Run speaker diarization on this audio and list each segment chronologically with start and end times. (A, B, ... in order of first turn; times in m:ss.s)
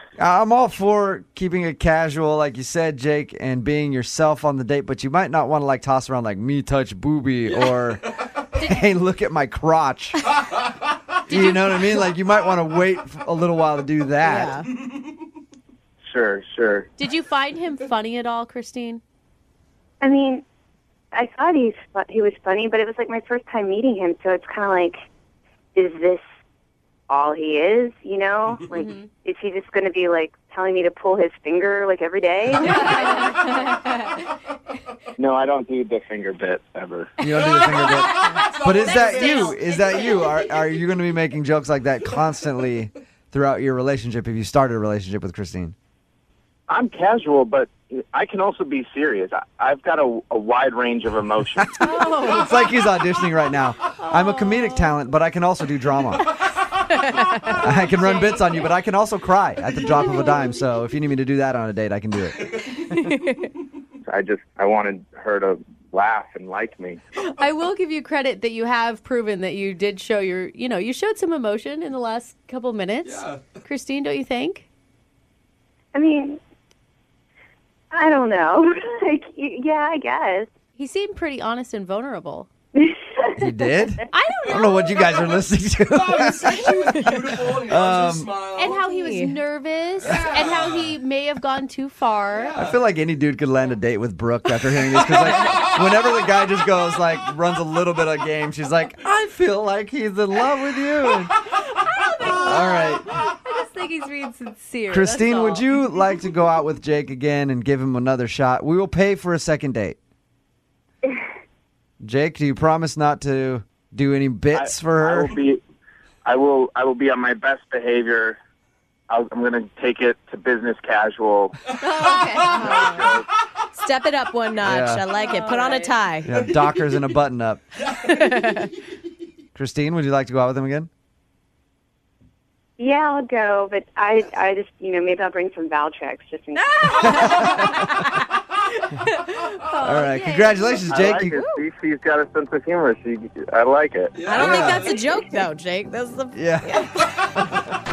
0:00.2-0:08.0 A
0:07.5-0:07.9 B
0:08.6-0:08.8 C
0:08.6-0:10.2 A
0:11.3-0:12.1 C
0:11.3-0:14.6 A
0:14.2-0:14.7 D
0:16.0-0:16.9 E
0:17.0-0:19.0 C
0:20.0-0:20.4 F
0:21.1-0:25.0 F
0:25.8-0:26.2 F
0:27.1-0:33.7 F
0:28.7-0:29.1 C
0:32.6-0:34.0 C
0:35.2-0:37.2 E
0:37.2-0:45.8 A
0:37.3-0:40.0 B
0:37.7-0:40.5 C
0:46.7-0:51.7 E
0:51.6-0:56.3 A
0:51.8-0:52.8 C
0:54.0-0:54.9 C
0:57.4-0:58.7 C
0:57.5-1:02.8 A
1:03.0-1:03.4 D
1:04.1-1:07.0 E
1:07.2-1:14.6 C
1:13.0-1:13.4 B
1:15.9-1:16.4 F
1:17.9-1:20.5 F
1:20.8-1:22.5 C
1:22.8-1:23.6 F
1:23.4-1:26.8 A
1:24.1-1:25.4 C
1:25.9-1:28.9 B
1:27.6-1:28.3 A
1:28.6-1:32.6 C
1:28.8-1:29.4 D
1:30.0-1:30.9 B
1:32.3-1:32.7 B
1:32.6-1:41.3 A
1:41.5-1:45.6 C
1:42.3-1:43.0 A
1:44.9-1:50.0 A
1:52.0-1:55.4 A
1:54.5-1:55.6 E
1:56.2-1:58.4 E
1:59.1-2:01.6 E
2:01.8-2:03.1 C
2:02.0-2:03.2 B
2:02.6-2:03.1 D
2:02.6-2:03.2 E
2:03.7-2:06.4 D
2:04.6-2:05.1 A
2:05.1-2:06.0 C
2:06.2-2:07.6 A
2:06.4-2:07.0 B
2:07.8-2:08.5 B
2:08.0-2:08.7 D
2:09.6-2:10.9 A
2:12.8-2:17.1 F
2:16.5-2:18.2 D
2:17.0-2:17.5 B
2:17.1-2:17.4 E
2:17.4-2:17.8 A
2:19.1-2:19.4 D
2:19.6-2:20.9 C
2:19.8-2:21.4 A
2:20.9-2:24.2 E
2:21.3-2:21.6 D
2:24.1-2:25.4 B
2:24.3-2:27.0 D
2:24.4-2:24.9 A
2:26.3-2:26.9 A